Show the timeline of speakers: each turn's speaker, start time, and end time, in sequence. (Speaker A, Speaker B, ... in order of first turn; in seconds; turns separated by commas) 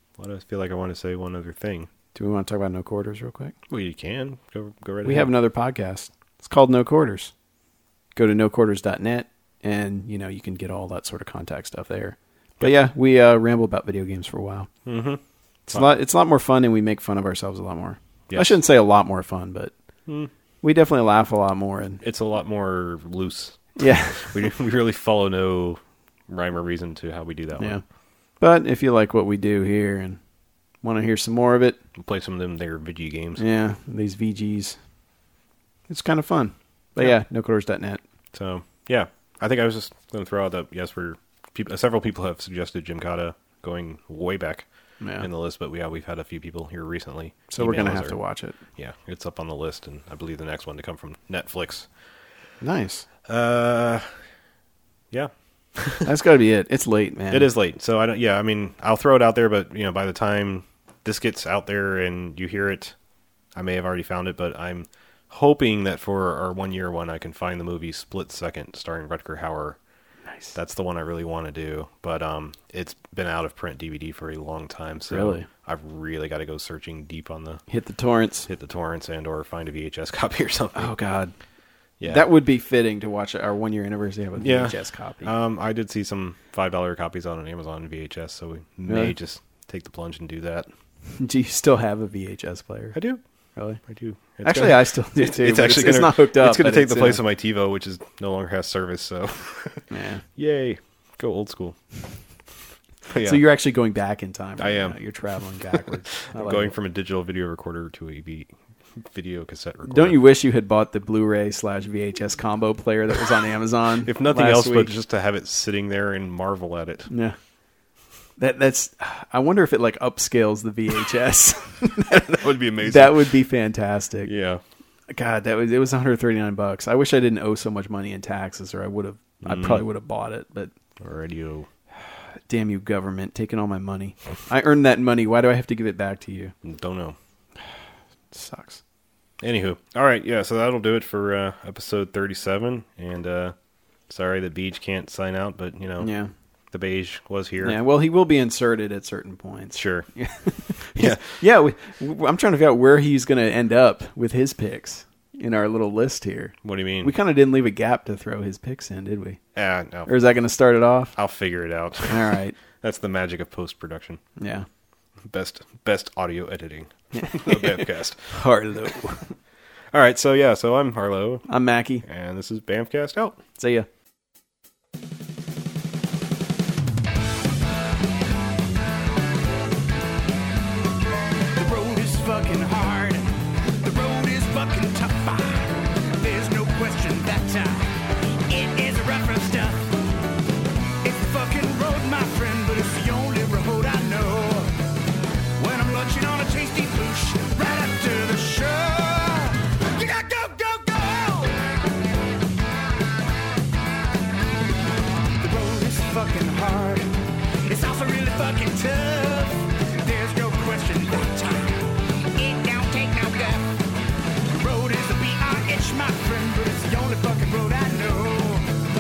Speaker A: 0.2-1.9, Speaker B: 2.1-3.5, Speaker A: 3.7-5.3, Speaker B: 5.0-7.3, Speaker B: 8.2-14.7, Speaker A: 14.9-15.9, Speaker B: 15.7-19.7, Speaker A: 18.3-18.6, Speaker B: 20.6-22.0, Speaker A: 22.0-27.8, Speaker B: 23.8-24.5, Speaker B: 27.6-27.8, Speaker B: 28.4-30.2, Speaker B: 30.8-31.8, Speaker A: 32.0-33.4, Speaker B: 33.4-34.8, Speaker B: 35.9-38.0, Speaker A: 38.3-44.7, Speaker B: 45.0-45.3, Speaker A: 45.2-48.2, Speaker B: 47.5-48.6, Speaker A: 48.8-51.9, Speaker B: 52.6-53.1, Speaker A: 53.2-54.1, Speaker A: 55.1-56.1, Speaker B: 56.0-57.5, Speaker A: 57.3-63.0, Speaker A: 63.5-69.8, Speaker B: 70.3-70.5, Speaker A: 70.5-77.6, Speaker B: 75.1-75.5, Speaker B: 77.7-78.5, Speaker A: 78.5-80.9, Speaker B: 80.8-81.3, Speaker A: 82.0-82.2, Speaker B: 82.1-85.3, Speaker A: 84.4-90.7, Speaker B: 88.9-89.1, Speaker B: 91.2-93.0, Speaker A: 93.0-93.2, Speaker A: 93.9-101.8, Speaker B: 94.3-97.2, Speaker B: 99.9-100.2, Speaker A: 103.1-103.4, Speaker B: 103.2-106.7, Speaker A: 104.6-105.0, Speaker A: 105.5-110.2, Speaker B: 109.9-114.9, Speaker A: 114.0-117.1, Speaker B: 117.1-117.4, Speaker B: 118.4-124.3, Speaker A: 122.1-123.2, Speaker A: 124.2-124.6, Speaker B: 125.1-130.7, Speaker A: 129.4-129.8, Speaker A: 131.0-131.7, Speaker B: 132.5-136.5, Speaker A: 136.6-137.2, Speaker B: 138.3-138.8, Speaker A: 139.4-143.6, Speaker A: 144.1-146.1, Speaker B: 146.0-146.3, Speaker A: 146.7-147.8, Speaker B: 147.6-159.4, Speaker A: 149.8-150.1, Speaker A: 151.0-151.4, Speaker A: 156.6-157.1, Speaker A: 159.6-160.1, Speaker B: 160.1-161.2, Speaker A: 161.2-164.2, Speaker B: 162.1-162.6, Speaker B: 164.4-164.7, Speaker A: 165.3-168.4, Speaker B: 167.2-169.3, Speaker A: 169.9-171.5, Speaker B: 171.5-172.0, Speaker A: 172.0-173.4, Speaker B: 173.6-173.9, Speaker C: 181.6-187.9, Speaker C: 188.4-189.9, Speaker C: 191.0-194.8, Speaker C: 195.6-201.7, Speaker C: 205.4-213.8, Speaker C: 214.5-218.7